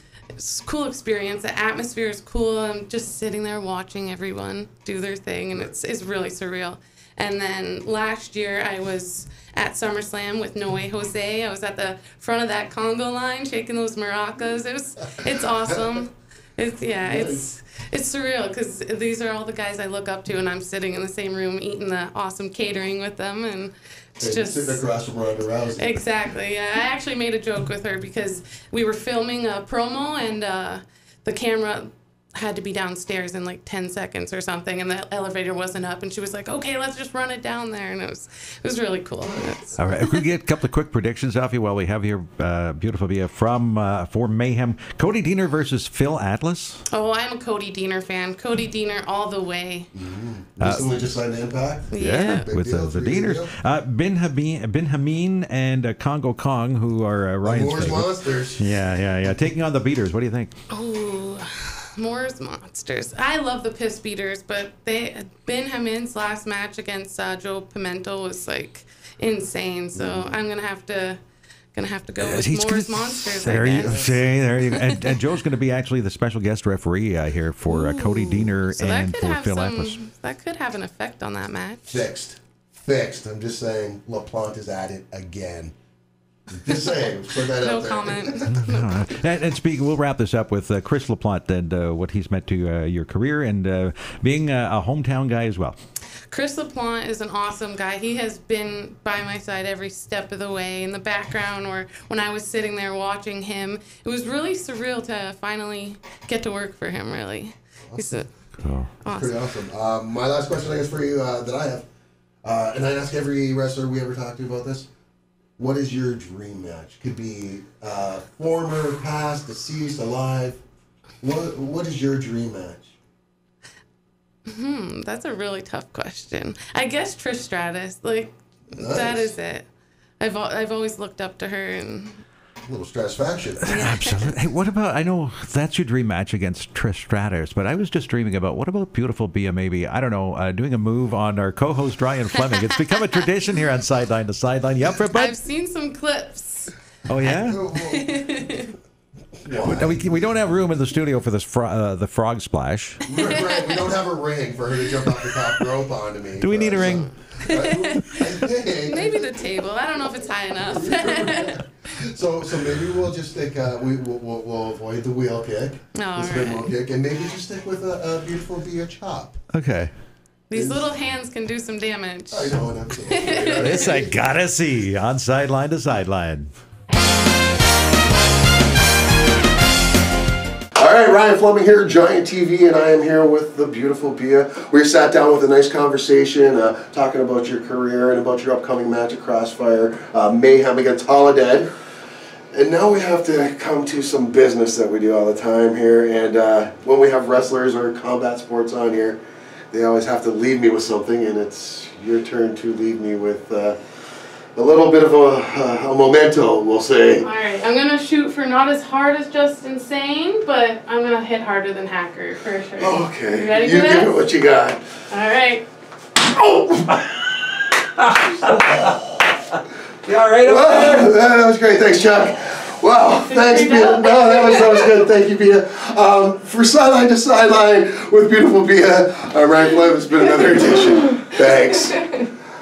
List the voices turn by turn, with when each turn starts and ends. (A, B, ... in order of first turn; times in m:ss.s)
0:00.4-0:24.8 A
0:15.7-0:16.0 B
0:17.0-0:17.4 B
0:24.2-0:26.0 B
0:25.8-0:40.2 A
0:39.8-0:46.8 C
0:46.9-0:49.9 A
0:49.9-0:53.6 B
0:50.6-0:51.1 C
0:51.9-0:52.5 A
0:51.9-1:00.5 C
0:57.4-0:58.6 B
1:00.7-1:11.2 A
1:10.0-1:10.4 B
1:11.7-1:15.1 A
1:12.2-1:20.0 C
1:17.6-1:22.0 A
1:21.9-1:25.7 B
1:26.5-1:28.5 B
1:27.5-1:29.2 A
1:28.5-1:35.8 C
1:36.3-1:48.4 A
1:47.9-1:48.2 B
1:48.6-1:48.9 C
1:49.0-1:49.4 A
1:49.1-1:51.9 B
1:52.4-1:54.9 B
1:55.6-2:00.6 B
2:01.2-2:02.9 B
2:04.5-2:09.7 A
2:08.7-2:09.3 B
2:10.2-2:12.2 A
2:12.6-2:13.8 B
2:13.6-2:25.3 C
2:13.7-2:14.3 A
2:25.1-2:28.8 A
2:27.1-2:27.6 C
2:27.3-2:28.3 B
2:29.4-2:30.1 B
2:29.5-2:33.1 C
2:33.1-2:39.4 B
2:33.1-2:33.9 A
2:36.4-2:38.0 C
2:36.8-2:38.3 A
2:38.8-2:41.6 A
2:40.6-2:49.4 B
2:45.9-2:46.7 A
2:49.5-2:49.9 C
2:50.5-2:54.0 A
2:50.5-2:50.9 B
2:52.3-2:54.2 B
2:53.6-2:56.5 C
3:00.8-3:11.7 B
3:12.5-3:19.2 B
3:19.7-3:23.8 B
3:24.6-3:27.3 B
3:27.2-3:34.3 A
3:32.8-3:34.8 B
3:35.1-3:35.7 A
3:36.3-3:37.1 B
3:38.0-3:39.0 C
3:40.0-3:41.1 C
3:40.4-3:52.3 B
3:43.3-3:44.9 A